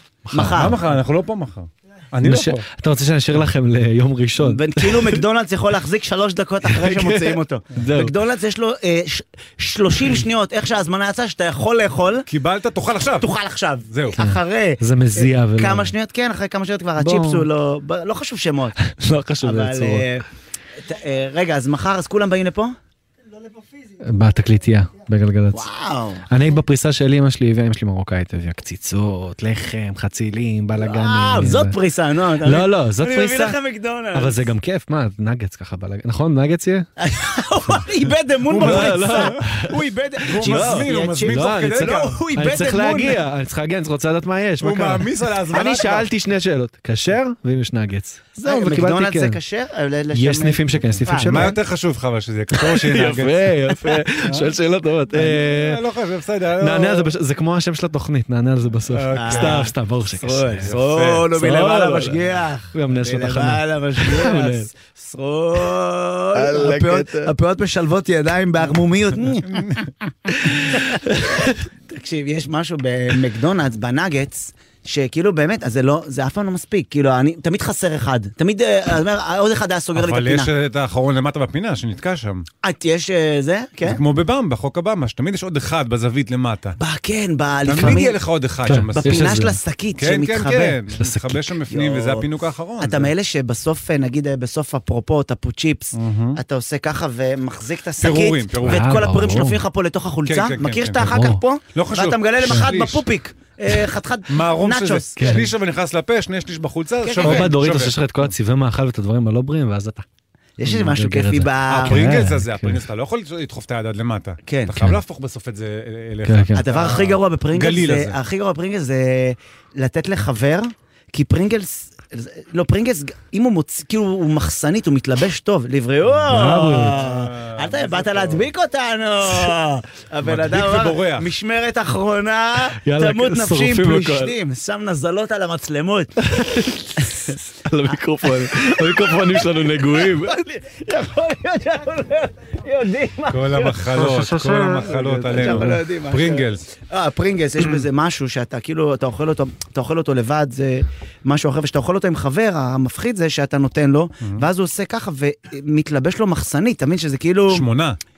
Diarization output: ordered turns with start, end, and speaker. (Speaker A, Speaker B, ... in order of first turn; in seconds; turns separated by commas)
Speaker A: 0.3-0.8, Speaker B: 0.3-0.8, Speaker C: 0.5-2.6, Speaker A: 2.2-5.2, Speaker B: 4.4-12.2, Speaker A: 6.7-8.1, Speaker C: 12.3-13.3, Speaker B: 13.2-18.8, Speaker C: 13.9-14.2, Speaker A: 14.2-15.9, Speaker A: 17.0-17.4, Speaker A: 18.8-20.1, Speaker B: 19.4-22.8, Speaker A: 24.0-25.7, Speaker B: 25.5-26.3, Speaker A: 26.3-31.8, Speaker B: 30.8-34.5, Speaker A: 32.4-33.6, Speaker A: 34.1-36.9, Speaker B: 37.0-43.2, Speaker C: 38.5-39.4, Speaker A: 38.5-39.7, Speaker C: 40.3-42.2, Speaker A: 40.4-49.4, Speaker C: 44.6-46.1, Speaker B: 45.5-46.0, Speaker B: 48.4-51.6, Speaker A: 50.1-51.5, Speaker C: 51.2-53.5, Speaker A: 52.5-55.8, Speaker C: 54.2-54.5, Speaker C: 55.1-57.1, Speaker A: 56.6-60.7, Speaker C: 58.9-59.7, Speaker B: 59.1-69.6, Speaker C: 60.7-61.3, Speaker A: 61.3-62.1, Speaker A: 62.7-64.7, Speaker A: 66.3-67.3, Speaker C: 69.5-69.9, Speaker A: 70.3-71.6, Speaker B: 70.9-71.3, Speaker B: 71.8-80.5, Speaker C: 79.9-82.5, Speaker B: 82.6-84.0, Speaker C: 83.8-86.8, Speaker B: 86.8-88.2, Speaker C: 87.7-89.3, Speaker A: 88.7-89.6, Speaker B: 89.0-90.8, Speaker C: 90.0-93.1, Speaker A: 91.0-91.4, Speaker B: 91.7-92.3, Speaker B: 92.8-105.4, Speaker C: 95.9-96.4, Speaker C: 98.0-99.0, Speaker A: 98.6-99.6, Speaker C: 100.2-101.1, Speaker A: 101.0-101.4, Speaker C: 101.7-103.0, Speaker C: 104.3-108.2, Speaker A: 105.2-105.5, Speaker B: 107.0-107.5, Speaker A: 107.2-110.0, Speaker B: 110.6-112.1, Speaker A: 110.6-112.8, Speaker C: 111.7-118.2, Speaker B: 114.5-114.8, Speaker A: 116.2-116.6, Speaker B: 116.5-136.2, Speaker A: 126.3-127.0, Speaker C: 126.9-128.5, Speaker C: 130.2-131.3, Speaker A: 132.8-134.3, Speaker A: 136.2-140.4, Speaker B: 138.4-143.9, Speaker C: 143.3-146.7, Speaker A: 143.9-145.8, Speaker B: 144.8-157.7, Speaker C: 157.5-158.0